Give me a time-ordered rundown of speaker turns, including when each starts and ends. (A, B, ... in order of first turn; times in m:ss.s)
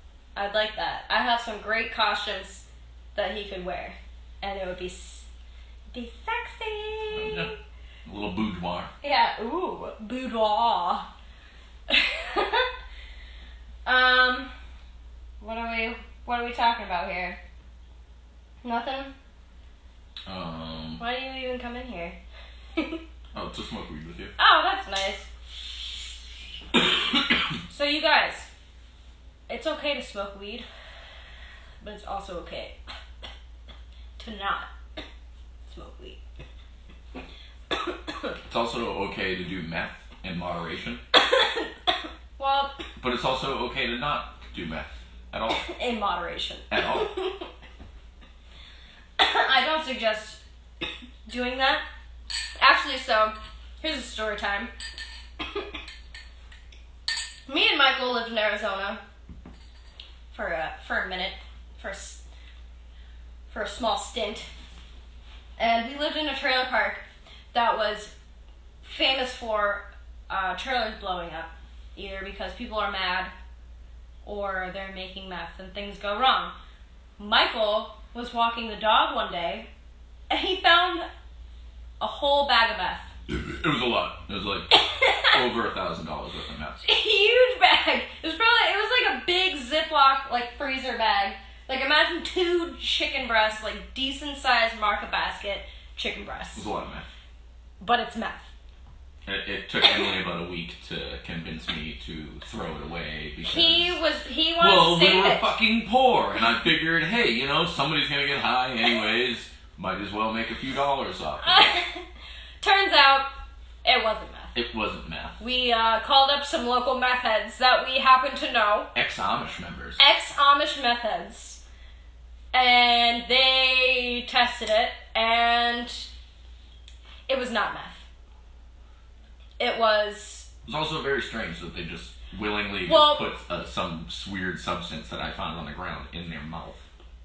0:00.4-0:05.3 A
0:05.9-0:07.6 A
0:07.1-0:07.5 B
0:08.0-0:08.9 B
0:09.0-0:11.1 A
0:11.9-0:12.7 A
0:13.9-0:14.5 A
0:15.4-0:17.4 A
0:18.6-0:19.1 A
0:20.3-0:21.0 B
0:21.0-0:22.2 A
0:22.8-0:23.0 A
0:23.3-0:24.3 B
0:24.4-0:25.3 A
0:27.7-0:28.5 A
0:29.5-0:30.6 A
0:31.8-0:32.8 A
0:34.2-0:35.0 A
0:35.7-0:36.2 A
0:37.9-0:38.3 A
0:38.5-0:41.0 B
0:41.2-0:42.8 A
0:43.0-0:45.7 B
0:45.5-0:47.5 A
0:46.7-0:47.2 B
0:49.2-0:50.4 A
0:51.3-0:51.8 A
0:52.6-0:54.7 A
0:55.4-0:55.7 A
0:57.5-0:59.0 A
1:00.3-1:02.2 A
1:03.5-1:04.5 A
1:05.6-1:08.1 A
1:08.8-1:13.3 A
1:14.2-1:16.6 A
1:17.2-1:19.7 A
1:20.3-1:21.1 A
1:22.0-1:23.1 A
1:23.3-1:26.8 B
1:24.7-1:25.4 A
1:26.8-1:36.7 A
1:36.6-1:37.1 B
1:37.8-1:38.5 A
1:39.2-1:44.0 B
1:43.4-1:45.5 A
1:44.6-1:51.8 B
1:51.4-1:52.1 A
1:52.6-1:53.3 A
1:53.8-1:54.5 A
1:54.5-1:55.4 B
1:55.4-1:58.9 A
1:58.9-2:00.0 B
2:00.0-2:01.6 A
2:02.5-2:06.1 A
2:07.3-2:08.0 A
2:09.6-2:10.5 A
2:10.7-2:16.8 B
2:12.8-2:13.2 A